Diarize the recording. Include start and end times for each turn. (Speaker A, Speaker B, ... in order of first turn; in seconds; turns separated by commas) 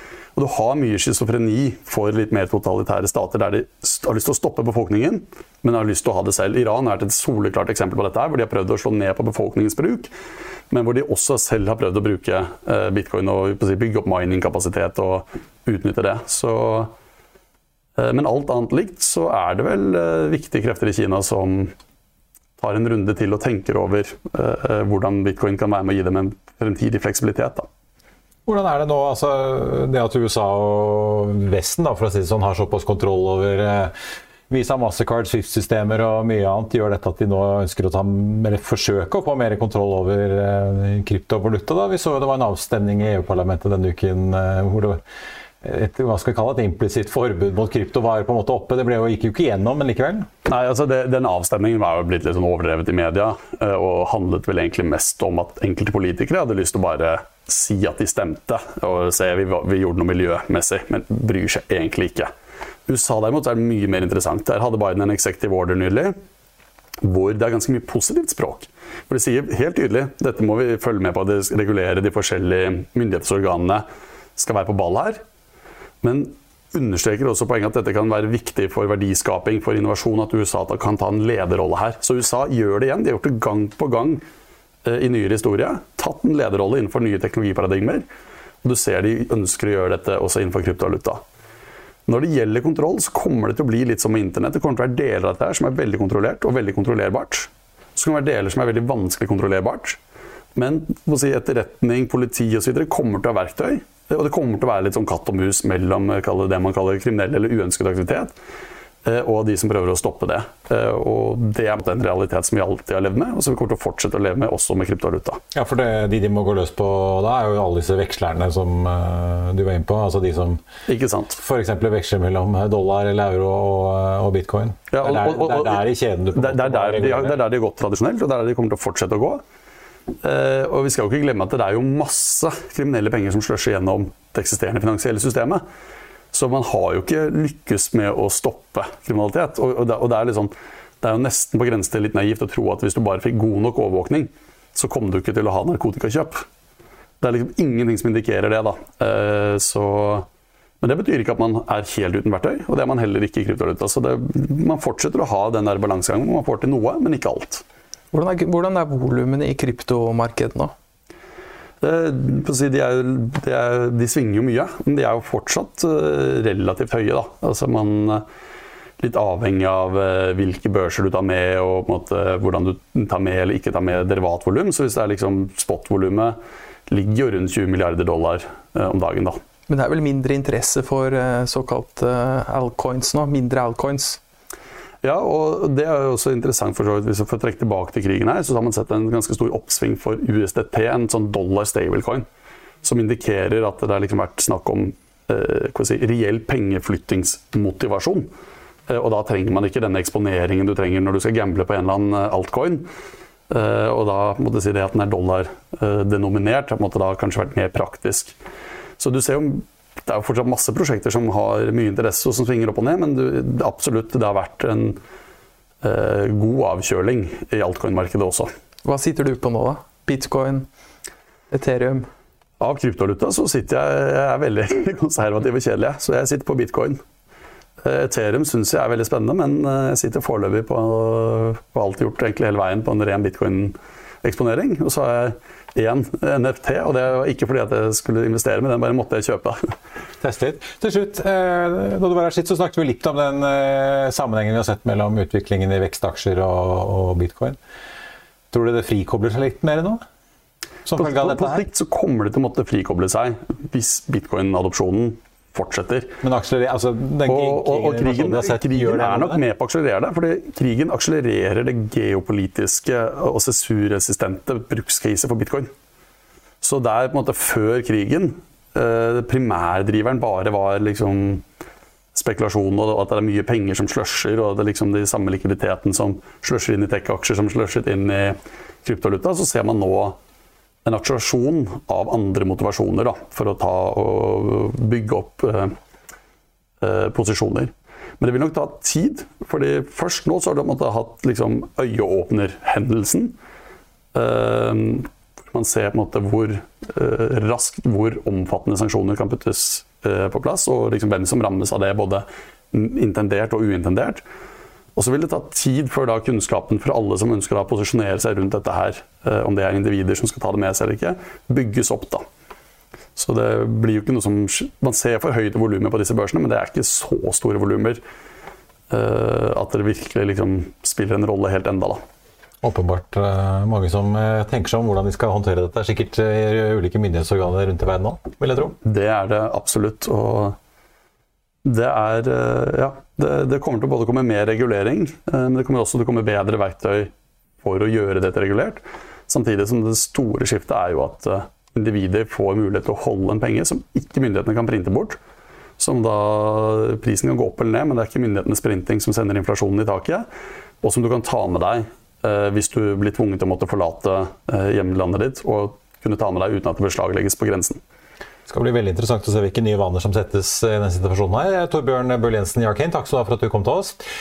Speaker A: 0.4-10.1, Speaker A: 10.7-16.9, Speaker A: 18.0-21.7, Speaker A: 22.6-27.7, Speaker B: 28.5-33.9, Speaker B: 34.5-45.0, Speaker B: 45.6-50.3, Speaker A: 50.5-62.3, Speaker A: 62.9-66.2, Speaker A: 67.0-73.8, Speaker A: 74.4-75.2, Speaker A: 76.0-84.2, Speaker A: 84.8-88.1, Speaker A: 88.6-91.2, Speaker A: 92.1-100.0, Speaker A: 100.5-108.3, Speaker A: 109.0-115.4, Speaker B: 115.5-120.6, Speaker A: 120.9-121.4, Speaker B: 121.4-127.4, Speaker A: 124.9-129.4, Speaker A: 130.2-135.6, Speaker A: 136.3-146.4, Speaker A: 147.2-150.3, Speaker A: 150.8-157.6, Speaker C: 158.1-160.7, Speaker A: 161.8-168.2, Speaker A: 169.0-176.4, Speaker A: 176.9-179.4, Speaker C: 179.7-184.2, Speaker A: 185.0-192.3, Speaker A: 192.8-198.3, Speaker A: 198.9-202.9, Speaker A: 203.5-208.4, Speaker A: 209.0-215.0, Speaker A: 215.8-218.5, Speaker C: 218.8-220.7, Speaker C: 221.5-222.1, Speaker A: 222.6-227.0, Speaker A: 227.8-239.6, Speaker B: 240.2-247.6, Speaker B: 248.5-250.0, Speaker B: 250.9-251.7, Speaker A: 251.0-256.1, Speaker B: 256.2-259.4, Speaker A: 257.3-265.7, Speaker A: 266.6-271.4, Speaker A: 272.1-280.2, Speaker A: 280.9-285.8, Speaker A: 286.8-293.4, Speaker A: 294.1-304.2, Speaker A: 305.0-312.2, Speaker A: 313.2-318.0, Speaker A: 318.9-322.0, Speaker B: 322.6-328.8, Speaker A: 328.8-330.6, Speaker A: 331.6-337.1, Speaker A: 337.6-345.2, Speaker A: 345.8-350.3, Speaker A: 350.8-357.8, Speaker B: 358.5-364.0